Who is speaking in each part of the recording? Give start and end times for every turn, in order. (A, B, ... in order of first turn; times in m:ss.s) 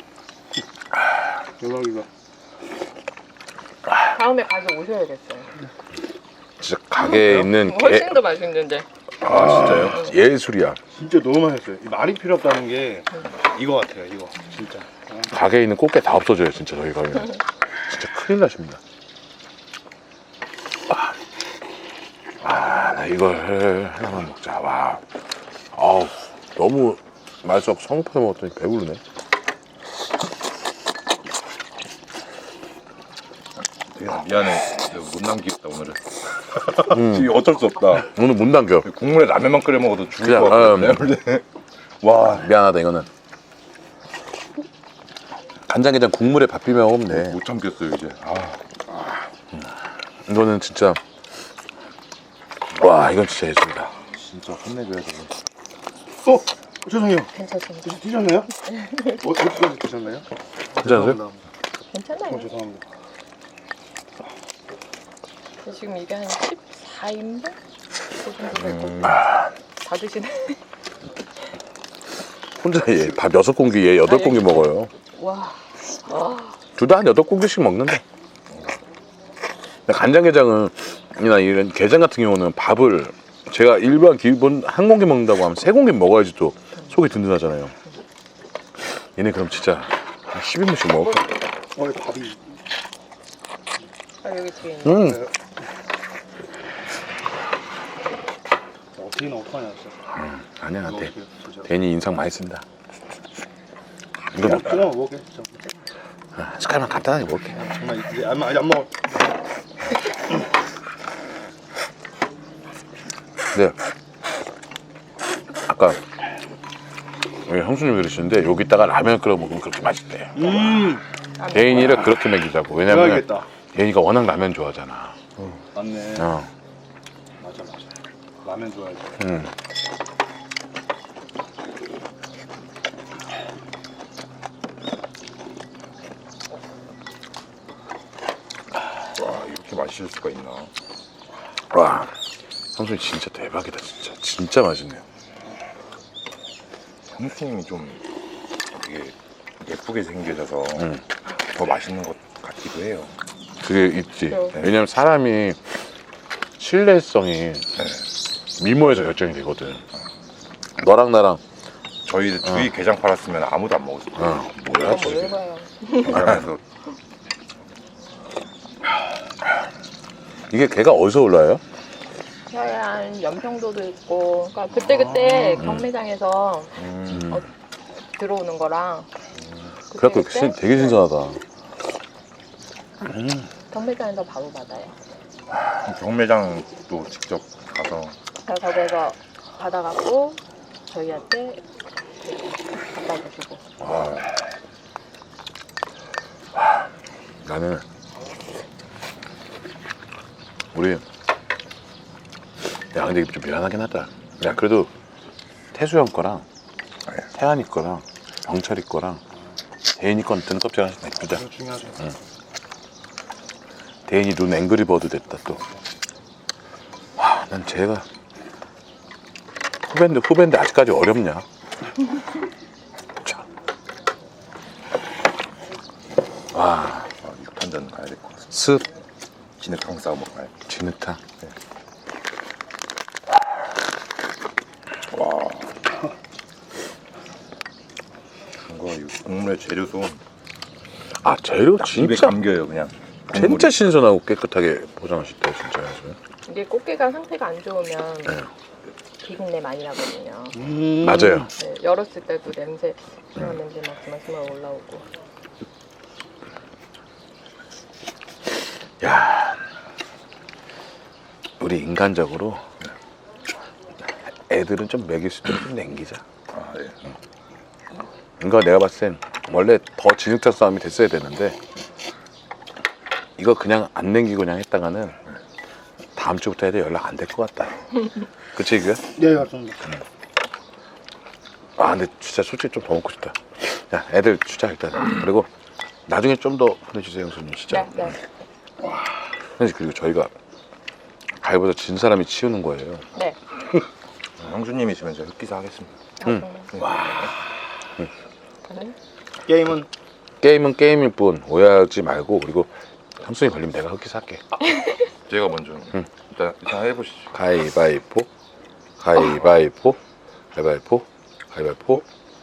0:01.6-0:02.1 A
0:04.0-0:05.6 B
0:06.6-0:08.2 C
0:07.0-0:08.9 B
0:09.2-0:10.8 C
0:10.9-0:15.3 A
0:15.3-0:18.8 C
0:22.4-0:25.0 C
0:25.7-0:29.0 C
0:33.9-0:36.2 D
0:36.7-0:38.1 D
0:36.8-0:37.3 C
0:37.9-0:38.9 C
0:38.8-0:41.4 D
0:40.2-0:41.1 C
0:42.0-0:42.4 D
0:42.0-0:43.1 C
0:45.7-0:47.4 C
0:47.1-0:49.2 D
0:50.2-0:51.0 C
0:52.7-0:53.9 C
0:53.9-0:55.4 D
0:56.2-0:57.3 A
0:57.3-0:59.2 B
0:57.8-0:58.5 A
0:59.1-1:01.4 A
1:00.8-1:01.2 C
1:01.9-1:02.5 B
1:02.3-1:02.8 A
1:05.6-1:07.6 B
1:08.2-1:09.2 B
1:09.8-1:10.6 B
1:12.6-1:14.9 C
1:14.0-1:16.6 B
1:16.8-1:18.0 C
1:18.5-1:18.8 D
1:19.9-1:27.7 C
1:29.2-1:31.3 C
1:31.7-1:32.6 A
1:34.2-1:35.2 B
1:34.8-1:35.3 C
1:39.0-1:40.0 A
1:40.1-1:42.6 C
1:40.8-1:41.7 A
1:44.3-1:44.8 C
1:44.4-1:45.7 A
1:46.3-1:47.7 C
1:47.6-1:49.1 A
1:55.6-1:56.0 C
1:57.4-2:00.9 C
2:00.4-2:01.0 A
2:01.4-2:02.0 B
2:01.5-2:05.2 C
2:02.8-2:03.5 A
2:05.7-2:06.3 A
2:06.2-2:06.5 C
2:07.4-2:09.2 A
2:09.2-2:09.5 C
2:19.1-2:20.7 D
2:21.7-2:22.1 C
2:22.8-2:25.0 C
2:27.1-2:28.0 D
2:28.7-2:33.1 D
2:33.6-2:35.6 C
2:34.3-2:34.6 B
2:36.6-2:37.7 C
2:38.6-2:39.8 C
2:40.8-2:41.4 C
2:42.0-2:45.1 D
2:44.2-2:45.3 C
2:44.8-2:46.3 B
2:46.0-2:46.6 D
2:50.5-2:51.6 C
2:52.5-2:57.5 B
2:56.8-2:57.2 D
2:57.1-2:57.4 C
2:58.1-2:59.1 B
2:59.9-3:01.0 B
2:59.9-3:01.4 C
3:03.0-3:03.5 C
3:03.7-3:04.9 B
3:05.8-3:08.2 D
3:08.4-3:11.6 B
3:12.2-3:13.6 B
3:13.8-3:14.3 C
3:16.5-3:16.9 C
3:17.4-3:17.8 C
3:20.7-3:21.0 C
3:22.9-3:24.9 C
3:25.7-3:26.4 C
3:27.3-3:29.2 C
3:30.0-3:31.5 C
3:31.3-3:32.0 A
3:34.1-3:35.6 C
3:37.2-3:38.0 C
3:39.9-3:41.4 C
3:46.5-3:47.1 C
3:47.2-3:48.5 D
3:48.5-3:48.8 C
3:49.6-3:50.6 D
3:50.7-3:51.2 C
3:55.1-3:55.8 D
3:58.7-4:00.2 D
4:01.2-4:02.4 C
4:01.8-4:03.7 D
4:03.3-4:06.2 C
4:06.4-4:08.4 B
4:09.2-4:10.8 B
4:10.6-4:11.5 A
4:11.0-4:11.5 C
4:11.5-4:15.1 B
4:19.0-4:19.6 C
4:21.6-4:22.6 C
4:24.3-4:26.2 C
4:26.5-4:27.1 D
4:28.4-4:31.6 C
4:33.4-4:35.2 C
4:36.2-4:39.2 C
4:39.2-4:39.9 A
4:41.8-4:45.5 C
4:46.1-4:48.2 C
4:47.7-4:48.2 B
4:49.6-4:50.3 C
4:51.4-4:53.0 C
4:54.4-4:56.0 D
4:56.2-4:56.7 B
4:56.7-4:57.3 D
4:58.7-4:58.9 B
4:59.4-4:59.9 A
5:00.4-5:04.4 C
5:05.3-5:07.3 D
5:07.3-5:08.3 C
5:09.0-5:10.0 C
5:10.5-5:12.0 C